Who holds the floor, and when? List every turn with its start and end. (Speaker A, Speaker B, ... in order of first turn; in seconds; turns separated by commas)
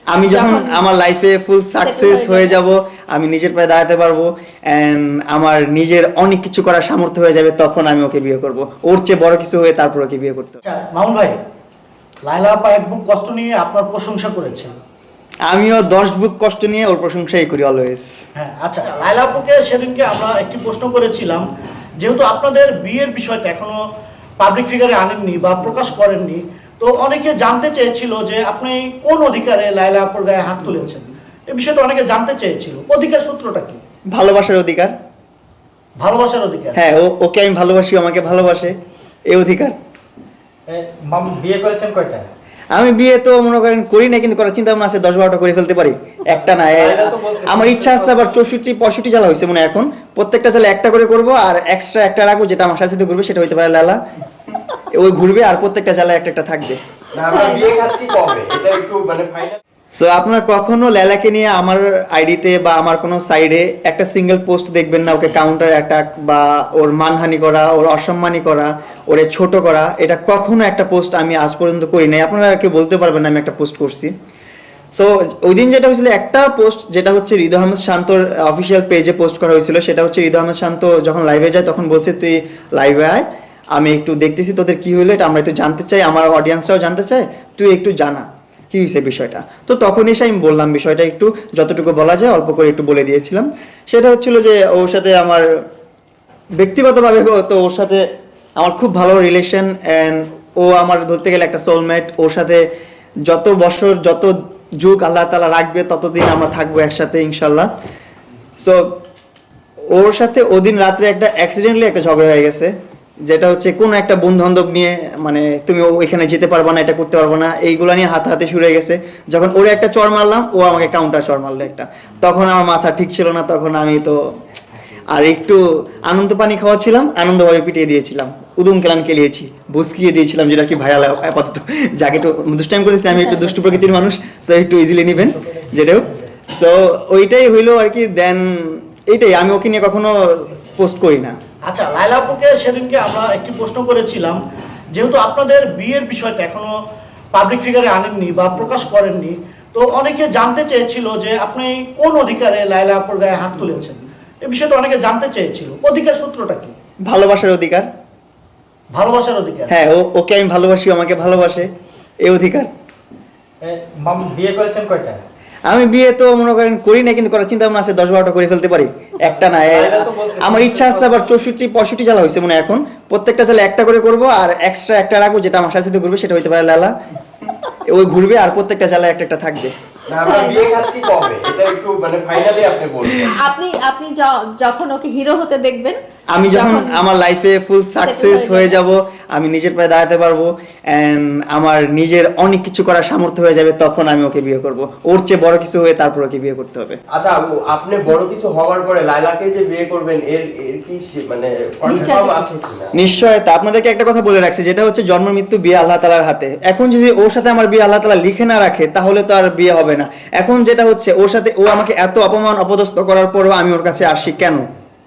Speaker A: 0.1-10.6, Speaker B: 0.3-0.8, Speaker B: 1.8-2.6, Speaker C: 10.7-11.4, Speaker C: 12.2-14.7, Speaker A: 15.5-18.1, Speaker C: 18.4-21.4, Speaker C: 22.0-23.8, Speaker C: 24.4-33.8, Speaker A: 34.1-34.9, Speaker C: 36.0-36.8, Speaker A: 36.7-38.7, Speaker A: 39.3-39.7, Speaker D: 40.7-42.3, Speaker A: 42.7-54.0, Speaker D: 46.3-48.2, Speaker A: 54.9-56.8, Speaker E: 57.1-59.6, Speaker B: 57.3-57.7, Speaker A: 59.9-74.1, Speaker A: 74.9-95.5, Speaker A: 96.6-98.0, Speaker A: 98.6-102.6, Speaker A: 103.2-107.7, Speaker A: 108.6-109.0, Speaker A: 109.9-112.7, Speaker A: 113.2-124.2, Speaker A: 125.1-141.3, Speaker B: 133.1-133.7, Speaker D: 135.3-135.7, Speaker C: 141.6-144.4, Speaker C: 144.9-146.7, Speaker C: 147.3-156.7, Speaker A: 157.1-157.9, Speaker C: 158.9-159.8, Speaker A: 159.7-162.7, Speaker D: 163.6-165.2, Speaker A: 165.7-176.9, Speaker D: 169.4-171.2, Speaker A: 177.8-179.7, Speaker E: 180.1-183.3, Speaker B: 180.2-180.6, Speaker B: 183.3-186.0, Speaker A: 186.3-197.0, Speaker B: 186.5-187.0, Speaker B: 188.0-188.8, Speaker E: 197.1-202.9, Speaker B: 201.8-202.4, Speaker A: 202.9-214.7